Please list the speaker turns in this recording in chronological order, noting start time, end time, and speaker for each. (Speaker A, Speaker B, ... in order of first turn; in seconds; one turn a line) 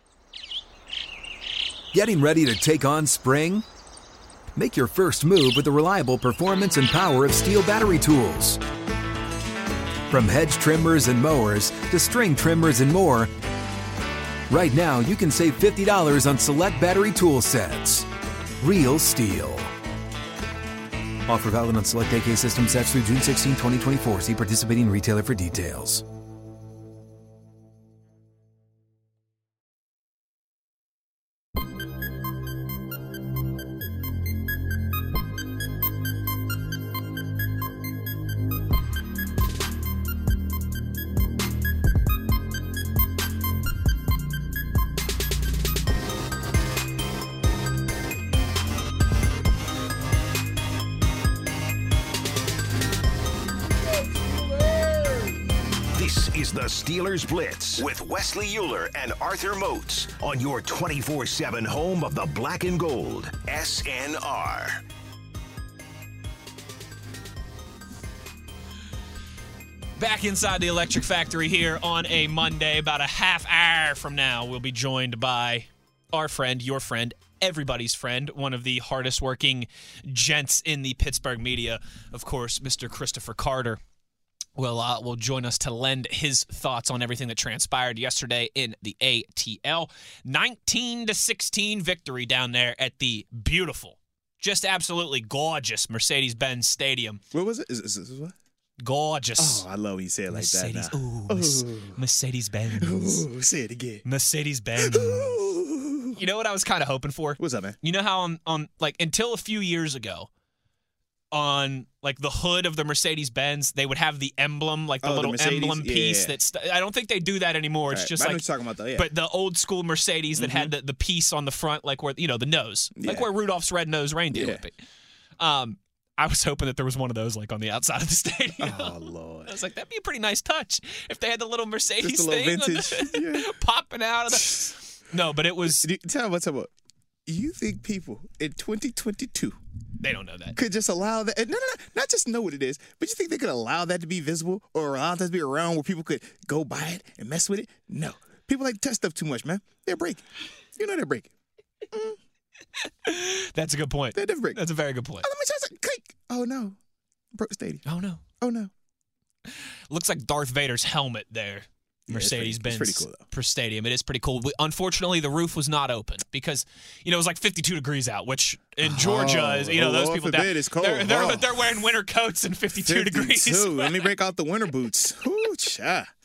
Speaker A: 1.9-3.7
Speaker A: 4.6-8.6
Speaker A: 10.1-13.3
Speaker A: 14.5-18.1
Speaker A: 18.6-19.7
Speaker A: 21.3-26.0
Speaker B: 55.9-64.8
Speaker C: 70.0-83.8
Speaker C: 84.6-97.2
Speaker D: 97.3-98.3
Speaker C: 98.8-99.7
Speaker D: 99.4-102.0
Speaker C: 100.3-103.2
Speaker D: 102.7-104.0
Speaker C: 104.0-105.5
Speaker D: 104.8-106.2
Speaker C: 106.1-110.3
Speaker D: 107.4-107.8
Speaker C: 111.3-118.4
Speaker D: 115.0-116.4
Speaker D: 117.9-119.1
Speaker C: 119.0-124.7
Speaker D: 120.4-120.7
Speaker D: 123.0-123.3
Speaker D: 124.3-124.6
Speaker C: 125.4-135.9
Speaker D: 128.6-129.5
Speaker D: 132.0-133.5
Speaker D: 135.7-136.7
Speaker D: 137.3-139.6
Speaker C: 140.0-140.6
Speaker D: 140.6-150.2
Speaker D: 150.8-151.3
Speaker D: 151.9-152.2
Speaker C: 153.1-155.3
Speaker D: 154.1-154.6
Speaker D: 155.2-156.8
Speaker D: 157.3-157.8
Speaker C: 157.9-158.2
Speaker D: 158.4-158.7
Speaker C: 159.5-174.1
Speaker D: 162.1-163.3
Speaker D: 168.8-171.6
Speaker D: 172.8-176.1